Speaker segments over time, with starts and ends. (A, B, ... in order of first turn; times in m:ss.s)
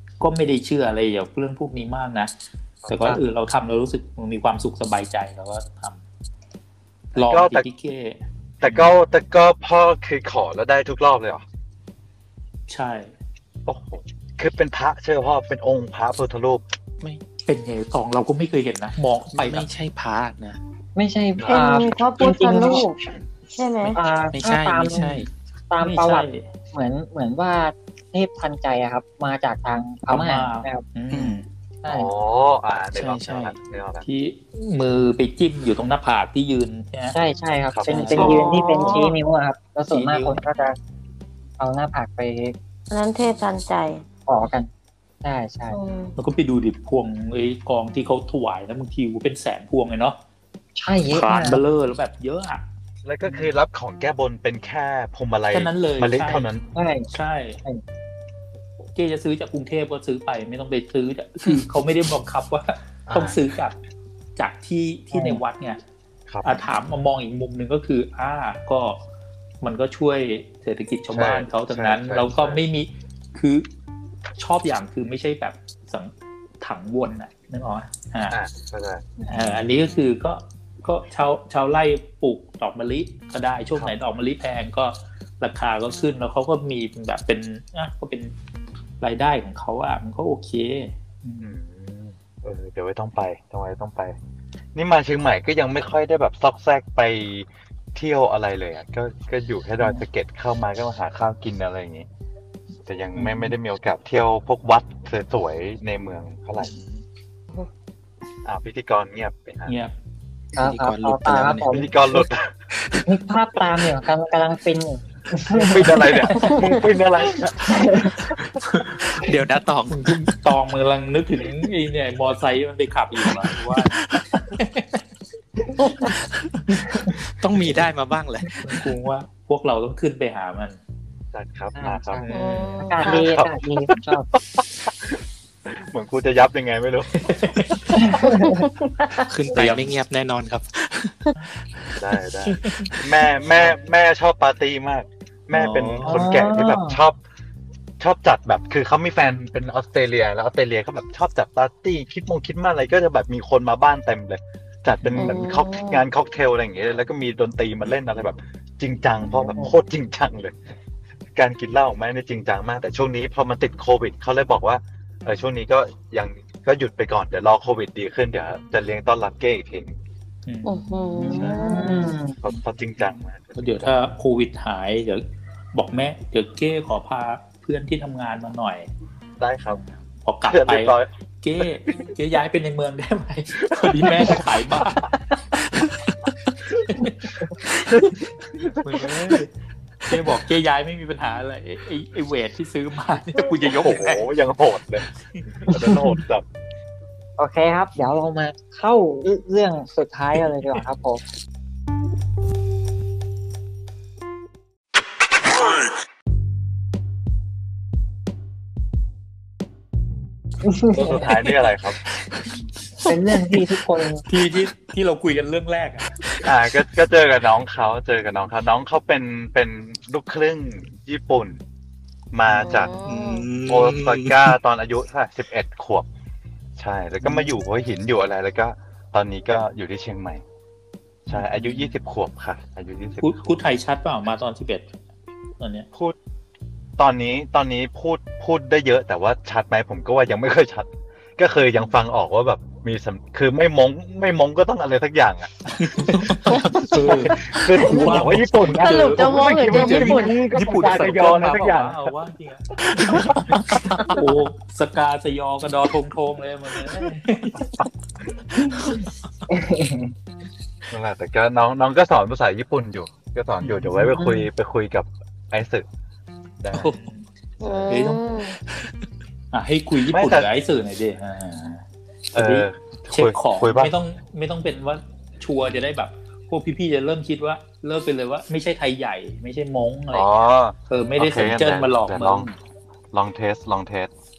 0:00.2-0:02.3 A
0:02.8-0:03.2 B
0:02.9-0:06.0 A
0:07.1-0:08.9 A
0:07.2-0:07.7 B
0:08.6-0:11.4 B
0:12.7-0:13.1 A
0:13.7-0:16.6 B
0:17.5-0:19.7 A
0:19.3-0:20.6 C
0:21.0-0:23.0 D
0:21.5-0:22.9 E
0:23.5-0:24.0 E
0:23.9-0:30.8 D
0:24.3-0:25.3 C
0:25.8-0:26.4 A
0:30.1-0:31.5 A
0:31.1-0:31.4 C
0:31.8-0:32.1 D
0:31.9-0:34.1 B
0:32.9-0:33.6 C
0:34.0-0:37.2 A
0:37.1-0:40.8 D
0:37.7-0:38.2 B
0:38.0-0:38.5 A
0:38.1-0:39.1 E
0:39.9-0:40.4 A
0:41.6-0:42.6 D
0:42.9-0:44.0 E
0:44.3-0:44.7 D
0:45.2-0:45.8 D
0:45.7-0:46.1 E
0:46.2-0:50.2 A
0:50.8-0:51.6 D
0:51.1-0:52.6 A
0:53.0-0:56.6 B
0:55.5-0:56.5 A
0:56.8-0:57.1 D
0:57.1-0:57.6 A
0:59.0-1:03.8 A
1:03.1-1:03.4 B
1:04.4-1:05.8 A
1:05.1-1:05.4 D
1:06.3-1:06.7 B
1:06.4-1:09.0 A
1:09.6-1:13.7 A
1:11.1-1:12.6 B
1:14.4-1:18.4 A
1:18.3-1:19.1 B
1:19.3-1:28.3 A
1:29.0-1:31.5 A
1:31.4-1:34.2 B
1:34.8-1:42.1 B
1:42.9-1:46.8 B
1:43.2-1:43.5 A
1:48.4-1:49.8 B
1:49.7-1:49.9 A
1:50.6-1:52.2 D
1:50.6-1:51.8 C
1:51.7-1:52.6 B
1:52.8-1:53.0 C
1:53.1-1:56.8 D
1:55.5-1:58.5 B
1:57.6-1:58.2 D
1:59.1-2:00.1 C
1:59.9-2:05.0 A
2:03.3-2:04.2 C
2:06.1-2:08.8 C
2:08.6-2:10.8 A
2:11.3-2:12.3 B
2:11.8-2:14.3 D
2:12.3-2:12.8 A
2:12.3-2:13.3 E
2:13.0-2:13.6 B
2:14.3-2:17.5 B
2:17.2-2:18.1 A
2:17.9-2:18.6 D
2:19.2-2:21.3 C
2:19.5-2:19.9 A
2:22.0-2:27.2 B
2:22.6-2:22.9 A
2:25.5-2:26.2 A
2:26.0-2:27.0 D
2:28.0-2:40.6 B
2:35.2-2:36.0 E
2:41.4-2:50.0 B
2:50.5-2:52.2 A
2:50.6-2:52.1 E
2:51.2-2:52.4 D
2:52.4-2:53.9 B
2:53.0-2:58.9 A
2:59.4-2:59.8 B
3:00.2-3:05.1 A
3:00.4-3:01.1 B
3:06.9-3:07.2 A
3:08.8-3:09.5 A
3:10.1-3:14.3 A
3:13.7-3:15.0 B
3:15.4-3:15.7 A
3:15.6-3:16.4 B
3:17.4-3:21.2 D
3:30.7-3:31.0 D
3:30.9-3:32.0 B
3:33.1-3:34.2 D
3:34.3-3:36.3 A
3:36.4-3:41.6 B
3:42.3-3:43.0 B
3:42.5-3:43.5 E
3:43.0-3:44.5 C
3:43.6-3:46.1 B
3:46.8-3:50.4 B
3:47.2-3:47.5 A
3:51.3-3:53.5 B
3:51.3-3:51.9 A
3:53.2-3:54.9 A
3:55.6-3:55.9 A
3:57.0-4:05.5 B
4:05.8-4:17.8 A
4:05.9-4:07.2 C
4:06.6-4:12.1 B
4:08.8-4:10.4 E
4:13.0-4:14.2 C
4:19.5-4:20.1 D
4:20.9-4:25.9 B
4:23.6-4:24.2 A
4:24.2-4:24.4 D
4:26.6-4:26.9 B
4:26.7-4:27.2 A
4:27.6-4:28.6 E
4:27.9-4:28.2 A
4:29.5-4:31.8 A
4:30.1-4:30.5 B
4:32.3-4:33.9 B
4:32.3-4:40.3 A
4:40.1-4:42.6 B
4:40.9-4:42.5 A
4:43.1-4:44.1 B